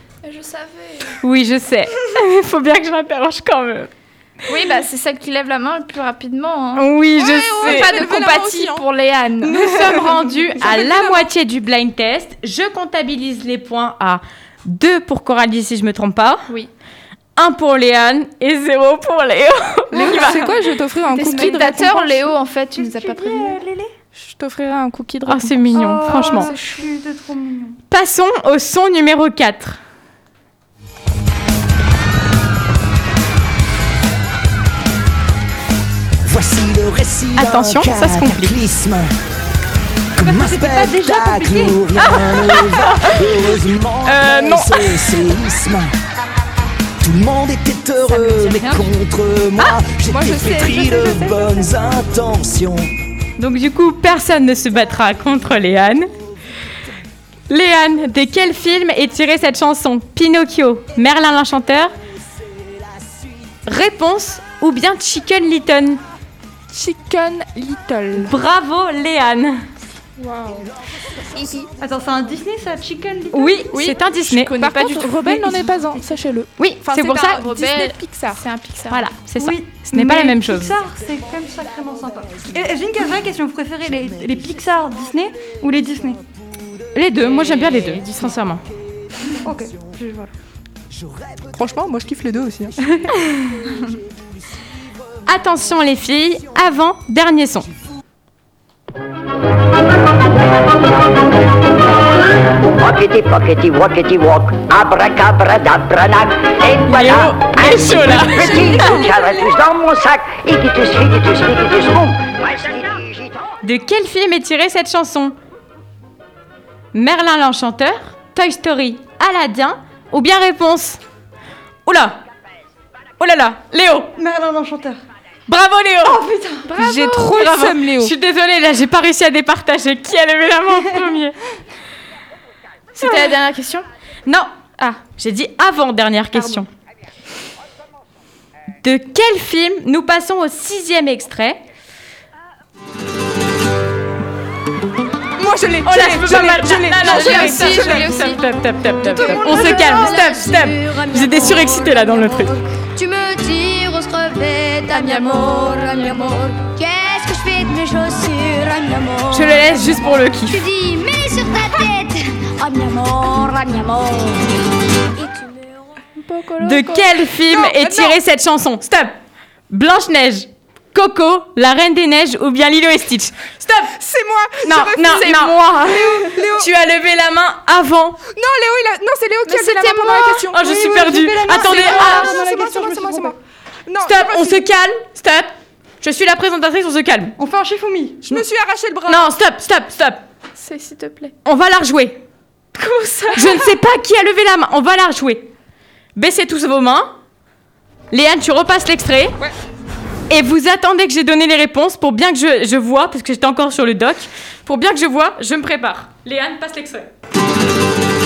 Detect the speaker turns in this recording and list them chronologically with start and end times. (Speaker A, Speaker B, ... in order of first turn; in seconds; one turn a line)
Speaker A: 0.2-1.2
Speaker B: 1.2-3.9
Speaker A: 4.5-6.8
Speaker B: 6.8-8.0
Speaker C: 7.2-8.8
Speaker A: 7.6-10.1
Speaker B: 9.4-16.4
Speaker C: 9.8-11.3
Speaker B: 17.4-20.6
Speaker C: 19.9-22.3
Speaker A: 21.1-23.6
Speaker D: 21.2-21.8
Speaker D: 22.8-23.9
Speaker C: 24.1-25.8
Speaker B: 25.3-26.5
Speaker D: 25.7-27.8
Speaker A: 26.1-26.9
Speaker B: 27.9-29.8
Speaker E: 36.2-39.1
Speaker B: 37.4-38.6
Speaker E: 40.2-45.9
Speaker D: 40.2-42.2
Speaker B: 42.0-43.2
Speaker B: 44.1-44.7
Speaker C: 44.1-44.5
Speaker E: 47.0-52.9
Speaker A: 48.4-48.8
Speaker C: 50.0-51.7
Speaker B: 53.4-56.1
Speaker B: 57.5-61.9
Speaker B: 63.7-66.0
Speaker C: 66.7-68.3
Speaker B: 68.1-69.6
Speaker C: 70.2-70.7
Speaker D: 71.8-73.7
Speaker B: 73.3-74.5
Speaker A: 73.7-75.6
Speaker C: 73.8-78.4
Speaker B: 76.6-77.4
Speaker A: 77.0-79.1
Speaker B: 78.9-80.8
Speaker D: 79.4-86.2
Speaker B: 87.0-88.6
Speaker E: 87.4-88.2
Speaker D: 89.4-90.3
Speaker E: 90.9-91.5
Speaker C: 91.5-92.8
Speaker E: 93.5-94.2
Speaker B: 95.3-97.7
Speaker F: 102.8-113.4
Speaker B: 106.8-109.0
Speaker B: 113.6-115.4
Speaker B: 116.9-121.0
Speaker B: 121.9-122.2
Speaker B: 123.2-124.1
Speaker D: 124.2-125.0
Speaker B: 125.5-126.2
Speaker D: 126.0-126.7
Speaker C: 126.7-128.1
Speaker A: 126.8-127.4
Speaker B: 127.1-131.4
Speaker A: 132.9-133.9
Speaker B: 133.0-133.4
Speaker B: 135.1-136.7
Speaker A: 136.3-136.6
Speaker B: 138.8-141.6
Speaker C: 145.4-148.1
Speaker B: 145.8-152.5
Speaker A: 147.0-148.4
Speaker A: 149.0-149.6
Speaker G: 149.1-164.5
Speaker A: 154.9-156.3
Speaker B: 159.3-160.7
Speaker G: 165.2-165.7
Speaker A: 166.2-167.1
Speaker B: 166.6-169.2
Speaker C: 167.5-168.2
Speaker B: 169.7-174.0
Speaker C: 174.0-175.4
Speaker B: 174.6-178.2
Speaker A: 175.0-176.3
Speaker C: 176.2-176.7
Speaker C: 178.3-184.6
Speaker A: 179.5-180.4
Speaker B: 180.5-182.4
Speaker D: 180.7-183.4
Speaker B: 184.0-187.4
Speaker D: 187.4-188.2
Speaker C: 188.3-189.3
Speaker B: 189.1-190.2
Speaker A: 190.6-191.3
Speaker B: 191.4-192.2
Speaker A: 192.8-193.7
Speaker B: 193.3-195.5
Speaker B: 196.2-197.1
Speaker B: 198.1-199.4
Speaker B: 200.3-207.1